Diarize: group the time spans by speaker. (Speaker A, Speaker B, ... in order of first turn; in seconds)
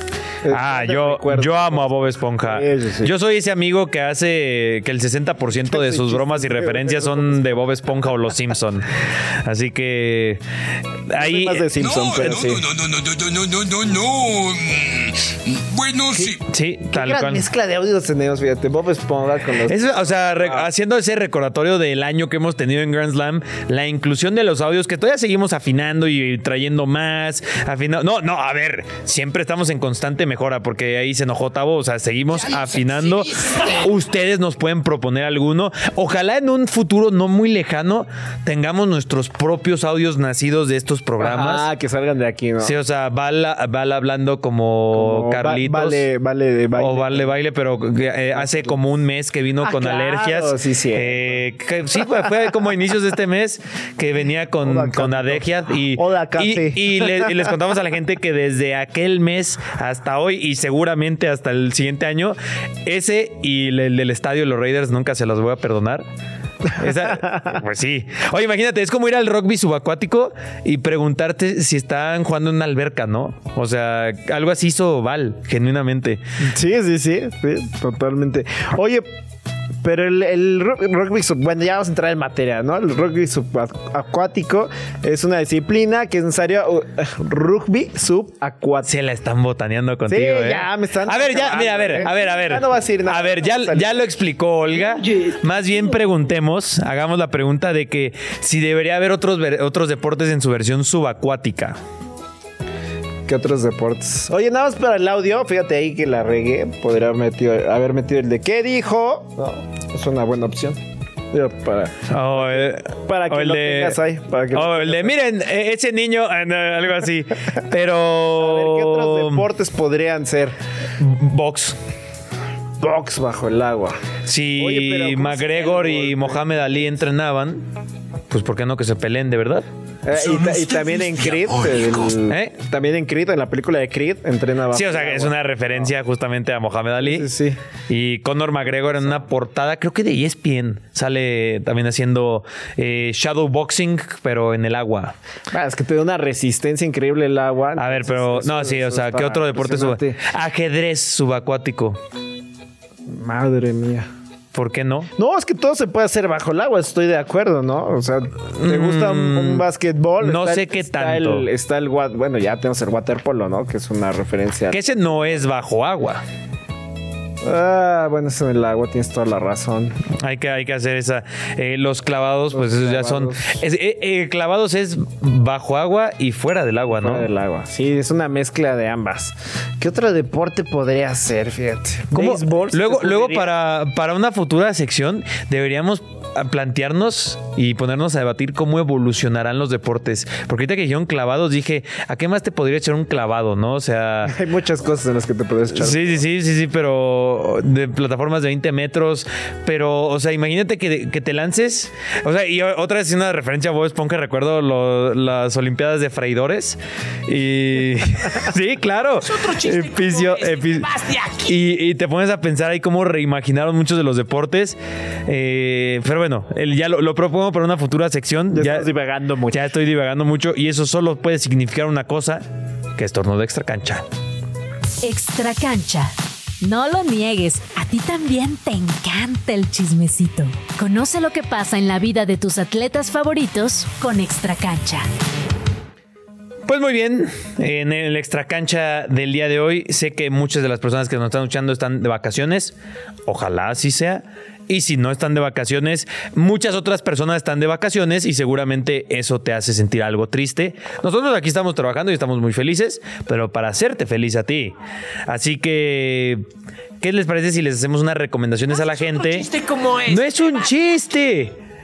Speaker A: 0.4-3.1, 5.7-8.0, 11.2-12.7, 16.1-16.4, 16.9-20.7, 41.2-42.8, 44.9-47.4, 48.3-48.8, 49.6-51.5, 54.6-57.5, 66.7-67.5, 76.5-79.0, 79.8-88.9, 90.1-94.1, 94.8-95.3, 103.3-110.8, 111.3-115.2, 118.3-120.6, 122.8-124.0, 124.6-127.1, 130.0-135.9, 137.0-137.6, 145.5-150.2, 153.1-154.1, 155.2-165.4, 167.4-170.0, 172.5-173.6, 176.9-183.5, 194.2-196.2, 218.5-219.8
Speaker B: 0.5-8.9, 9.4-10.4, 11.1-11.7, 16.5-17.5, 19.6-41.7, 42.6-46.1, 46.8-66.1, 66.8-76.2, 88.8-101.8, 112.1-114.0, 114.5-119.5, 121.0-121.8, 124.3-127.7, 128.3-129.7, 132.3-132.6, 134.7-137.3, 137.9-145.2, 147.8-152.0, 154.5-155.1, 158.5-159.7, 160.2-161.5, 164.7-166.2, 170.2-177.3, 182.1-194.3, 195.7-218.9, 219.5-222.4, 223.0-224.1, 236.7-242.8, 243.3-254.8, 255.3-256.4, 257.0-259.5, 260.0-261.6
Speaker C: 11.8-16.4, 130.8-131.8
Speaker D: 32.6-33.2, 209.4-211.5, 259.0-260.6
Speaker E: 225.0-235.1